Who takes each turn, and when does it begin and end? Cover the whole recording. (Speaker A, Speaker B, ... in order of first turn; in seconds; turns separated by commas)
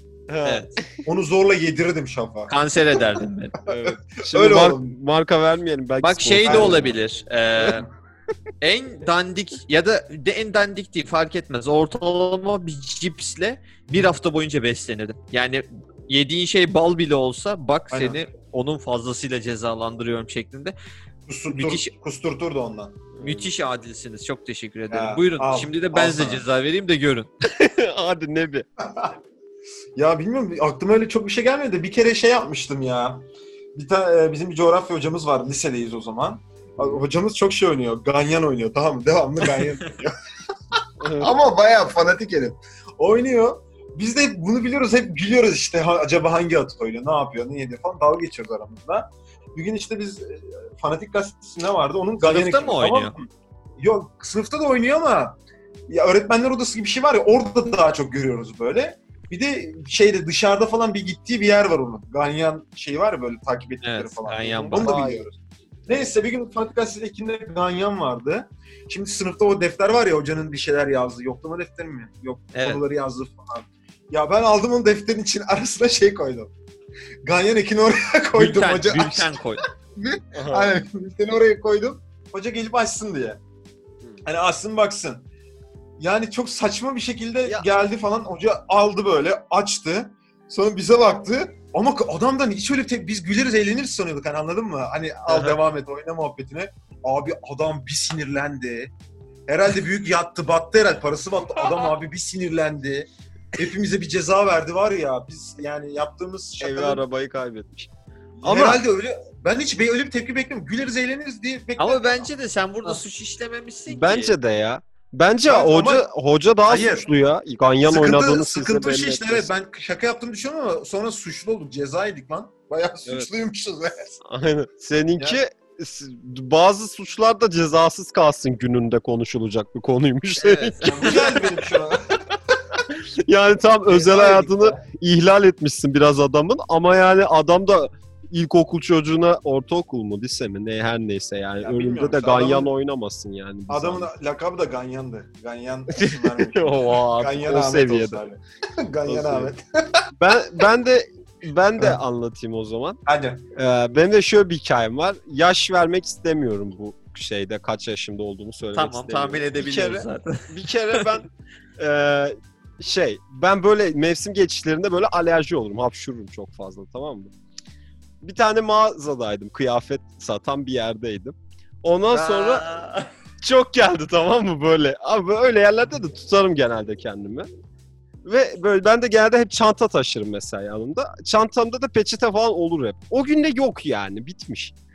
Speaker A: 0.3-1.0, Speaker B: 0.4-0.8, Speaker C: 1.0-2.5, Speaker B: 2.5-3.6, Speaker A: 3.7-6.8, Speaker C: 3.7-4.9, Speaker B: 6.0-7.8, Speaker C: 6.4-6.9, Speaker B: 8.6-20.7, Speaker C: 17.9-18.2, Speaker C: 21.3-23.0, Speaker B: 21.5-21.9, Speaker A: 23.1-23.5, Speaker B: 23.2-27.3, Speaker C: 24.9-26.4, Speaker A: 27.4-28.6, Speaker C: 28.8-29.2, Speaker C: 29.9-40.1, Speaker A: 41.0-41.4, Speaker C: 41.1-53.2, Speaker B: 52.2-53.1, Speaker C: 53.8-55.4, Speaker C: 55.9-65.3, Speaker B: 63.8-65.0, Speaker A: 64.7-65.3, Speaker C: 65.9-76.5, Speaker B: 72.5-72.8, Speaker C: 77.2-79.3, Speaker B: 78.3-79.6, Speaker C: 80.0-83.4, Speaker A: 80.3-80.7, Speaker C: 84.2-85.2, Speaker C: 86.0-98.9, Speaker B: 95.3-95.5, Speaker C: 99.5-107.0, Speaker A: 106.6-107.9, Speaker C: 108.4-112.3, Speaker A: 108.4-108.8, Speaker B: 111.8-114.3, Speaker A: 113.9-119.5, Speaker C: 115.5-116.0, Speaker C: 116.7-117.1, Speaker C: 117.9-124.2, Speaker A: 124.2-131.3, Speaker B: 130.4-131.1, Speaker C: 130.8-132.8, Speaker A: 133.0-144.1, Speaker C: 133.9-134.8, Speaker C: 141.6-142.7, Speaker C: 143.7-149.6, Speaker A: 146.0-148.2, Speaker A: 149.1-149.5, Speaker A: 150.2-153.0, Speaker C: 153.1-153.4, Speaker A: 153.5-161.3, Speaker B: 158.7-161.1, Speaker A: 161.8-167.3, Speaker A: 168.2-172.6, Speaker B: 172.1-173.1, Speaker A: 173.4-177.5, Speaker A: 178.2-184.7